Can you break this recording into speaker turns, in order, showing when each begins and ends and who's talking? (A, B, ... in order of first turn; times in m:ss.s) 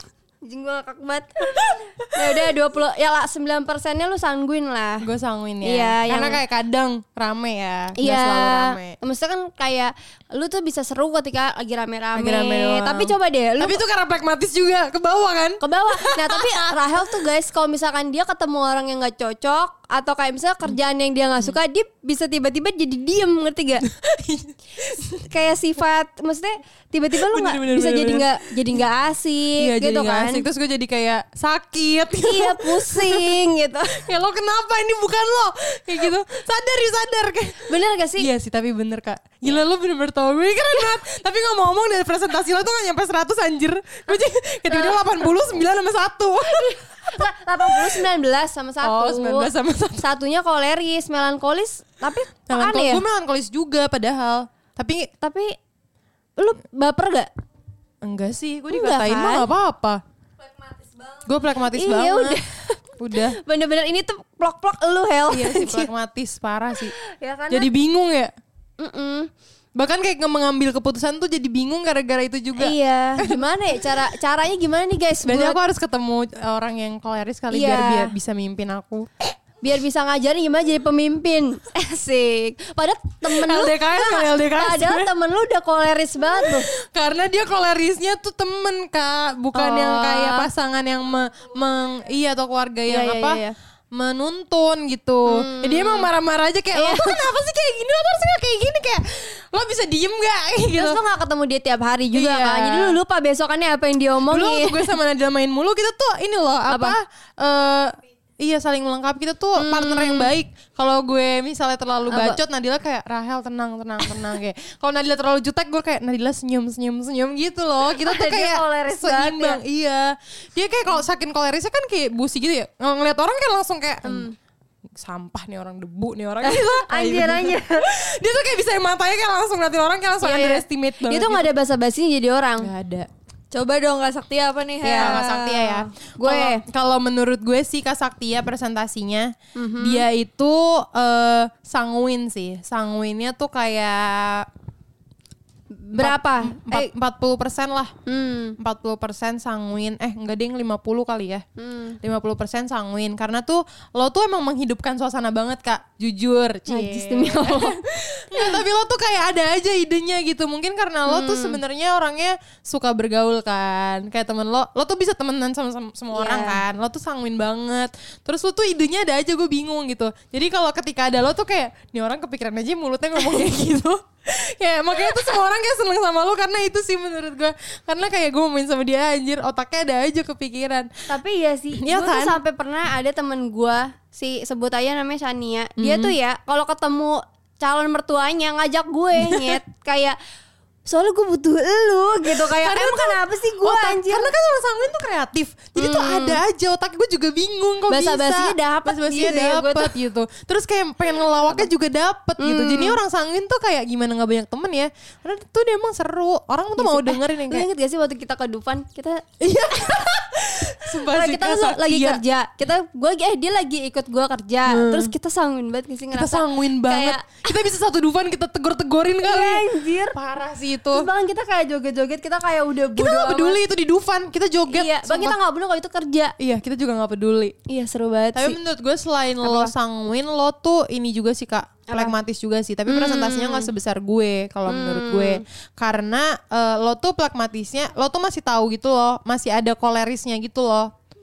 0:00.4-0:05.1 A
0:01.4-0:02.5 B
0:05.0-0:09.0 B
0:05.6-0:06.4 A
0:08.0-0:13.8 A
0:12.1-0:17.2 B
0:15.6-0:23.8 A
0:23.8-0:25.2 B
0:25.2-0:30.4 A
0:27.1-0:28.8 B
0:29.6-0:33.3 B
0:32.2-0:34.0 A
0:33.9-0:48.1 B
0:37.6-0:38.3 A
0:44.7-0:45.3 A
0:46.5-0:53.0 A
0:48.8-0:50.0 B
0:52.5-0:55.1 B
0:55.2-0:55.6 A
0:56.4-0:57.3 A
0:58.0-1:00.0 B
0:58.7-0:59.5 A
1:01.2-1:02.4 B
1:01.6-1:05.9 A
1:03.0-1:03.4 B
1:05.3-1:06.9 B
1:06.8-1:07.7 A
1:07.5-1:08.3 B
1:08.8-1:09.3 A
1:09.8-1:14.0 B
1:12.6-1:15.6 A
1:15.2-1:19.3 B
1:17.5-1:18.1 A
1:19.6-1:26.7 A
1:23.2-1:25.1 B
1:26.4-1:33.4 B
1:29.5-1:30.5 A
1:32.9-1:33.5 A
1:33.9-1:41.0 B
1:35.3-1:36.1 A
1:36.7-1:37.2 A
1:40.8-1:44.9 A
1:42.1-1:43.0 B
1:44.3-2:04.3 B
1:46.7-1:46.9 A
1:49.6-1:50.3 A
1:52.1-1:52.4 A
1:58.0-1:59.6 A
2:04.0-2:04.4 A
2:04.9-2:11.5 B
2:06.4-2:07.9 A
2:10.2-2:12.7 A
2:12.6-2:13.1 B
2:13.5-2:15.6 C
2:14.8-2:16.6 A
2:14.9-2:24.5 B
2:19.6-2:20.0 A
2:25.7-2:26.9 A
2:25.9-2:27.9 B
2:28.0-2:28.6 A
2:28.6-2:31.4 B
2:31.6-2:32.0 A
2:32.0-3:00.9 B
2:36.7-2:37.8 A
2:41.0-2:41.6 A
2:46.1-2:46.6 A
2:53.2-2:53.5 A
3:01.1-3:10.2 A
3:01.8-3:02.4 B
3:05.8-3:06.2 B
3:09.2-3:09.6 B
3:10.9-3:14.3 A
3:12.2-3:27.7 B
3:15.8-3:16.4 A
3:17.9-3:19.9 A
3:22.4-3:23.0 A
3:26.8-3:29.2 A
3:29.4-3:32.2 B
3:30.8-3:37.4 A
3:34.7-3:35.1 B
3:36.1-3:41.1 B
3:39.2-3:40.2 A
3:40.9-3:43.6 A
3:42.9-3:45.4 B
3:44.7-3:46.3 A
3:46.4-3:47.6 B
3:47.7-3:48.6 A
3:48.3-4:00.9 B
3:49.4-3:49.7 A
3:51.9-3:52.1 A
3:52.9-3:53.7 A
3:54.7-3:55.4 A